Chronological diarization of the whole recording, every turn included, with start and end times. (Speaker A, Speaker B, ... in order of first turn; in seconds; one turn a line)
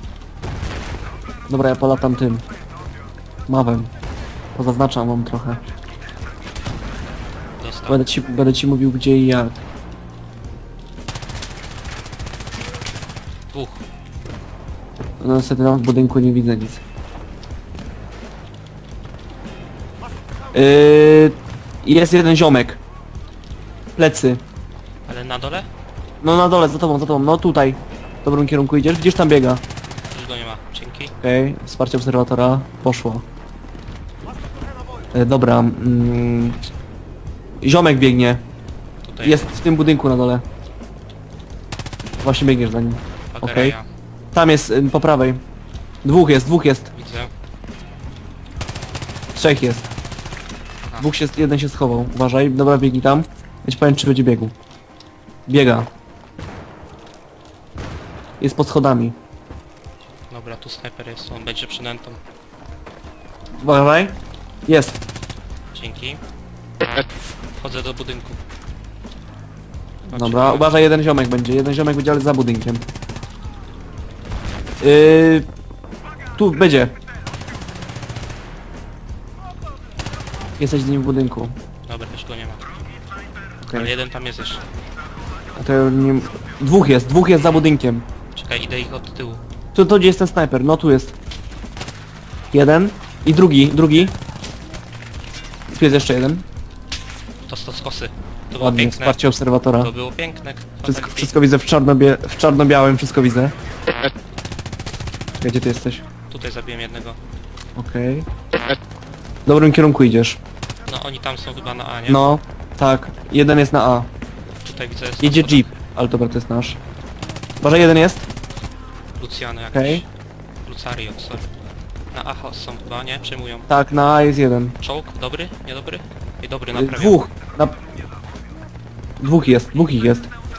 Speaker A: 1.5-2.4
Speaker A: 3.5-3.9
Speaker A: 4.5-5.6
Speaker B: 7.6-8.0
Speaker A: 7.9-9.6
Speaker B: 13.5-13.8
Speaker A: 15.2-16.8
Speaker A: 20.5-22.8
Speaker A: 23.9-24.4
Speaker B: 25.1-25.7
Speaker A: 26.2-29.6
Speaker B: 30.1-31.1
Speaker A: 31.2-33.2
Speaker A: 35.1-36.6
Speaker A: 37.6-38.4
Speaker B: 39.0-39.5
Speaker A: 39.2-40.4
Speaker A: 42.2-43.8
Speaker B: 43.3-43.9
Speaker A: 44.3-45.4
Speaker A: 46.0-46.9
Speaker B: 46.9-47.3
Speaker A: 49.3-49.9
Speaker A: 51.0-54.5
Speaker A: 55.5-55.9
Speaker A: 58.4-59.1
Speaker B: 60.3-62.2
Speaker A: 63.6-65.0
Speaker B: 65.7-66.2
Speaker B: 67.6-68.4
Speaker B: 70.1-70.8
Speaker A: 70.1-72.8
Speaker A: 74.8-75.5
Speaker A: 76.3-76.9
Speaker A: 80.6-81.5
Speaker B: 81.9-82.6
Speaker A: 83.6-83.9
Speaker B: 83.7-84.6
Speaker A: 85.5-88.0
Speaker B: 88.3-89.4
Speaker A: 89.7-91.1
Speaker A: 92.5-94.2
Speaker A: 95.7-96.4
Speaker B: 97.5-99.2
Speaker A: 98.6-99.9
Speaker B: 99.8-101.3
Speaker A: 100.8-103.5
Speaker A: 105.4-106.0
Speaker B: 106.3-107.2
Speaker A: 107.8-108.3
Speaker A: 109.5-110.4
Speaker B: 110.9-112.2
Speaker A: 112.1-114.1
Speaker B: 114.6-115.7
Speaker A: 115.2-116.8
Speaker A: 117.6-118.2
Speaker B: 119.2-120.1
Speaker A: 119.7-120.0
Speaker B: 120.7-121.5
Speaker B: 122.1-123.7
Speaker A: 123.7-124.8
Speaker B: 124.8-127.2
Speaker A: 126.7-127.8
Speaker A: 129.2-130.3